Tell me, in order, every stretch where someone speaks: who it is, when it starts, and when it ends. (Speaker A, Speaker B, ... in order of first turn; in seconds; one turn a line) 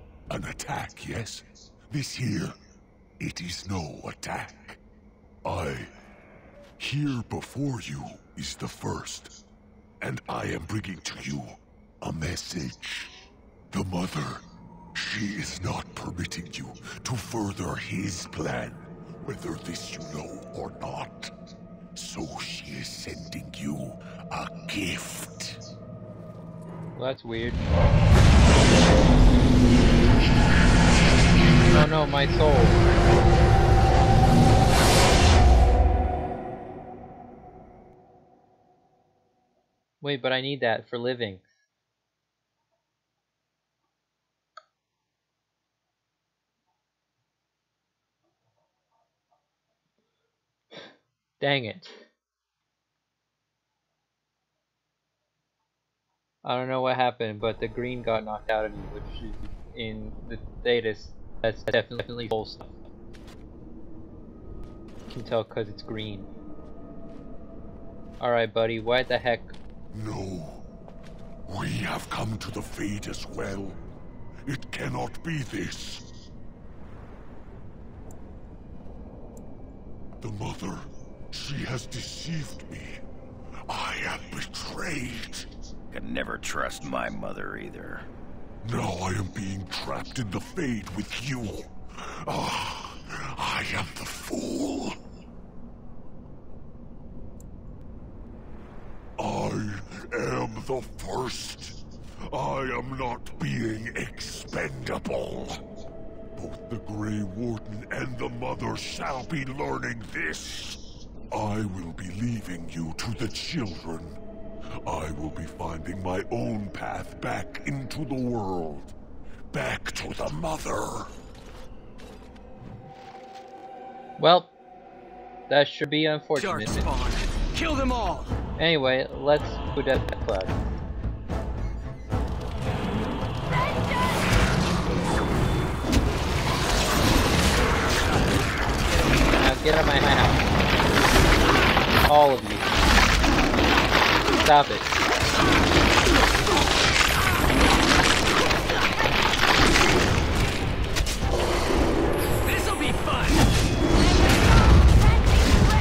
Speaker A: 0.3-2.5
Speaker A: 3.2-4.8
Speaker A: 5.4-5.9
Speaker A: 6.8-9.3
Speaker A: 10.0-13.2
Speaker A: 13.7-14.4
Speaker A: 14.9-21.3
Speaker A: 21.9-25.6
Speaker B: 26.9-27.6
Speaker B: 31.7-32.8
Speaker B: 40.0-41.4
Speaker B: 51.4-52.0
Speaker B: 56.4-62.7
Speaker B: 65.1-66.3
Speaker B: 68.2-69.5
Speaker A: 69.9-70.6
Speaker A: 71.5-73.8
Speaker A: 74.5-76.1
Speaker A: 80.2-83.0
Speaker A: 83.7-85.5
Speaker C: 85.9-88.1
Speaker A: 88.6-95.0
Speaker A: 99.2-105.6
Speaker A: 106.3-114.2
Speaker A: 114.8-118.9
Speaker A: 119.5-121.1
Speaker B: 124.2-124.5
Speaker B: 125.5-126.9
Speaker D: 126.3-128.3
Speaker B: 128.6-130.6
Speaker D: 137.8-139.4
Speaker B: 139.3-140.5
Speaker B: 142.1-142.7
Speaker B: 144.3-144.9
Speaker D: 152.4-153.4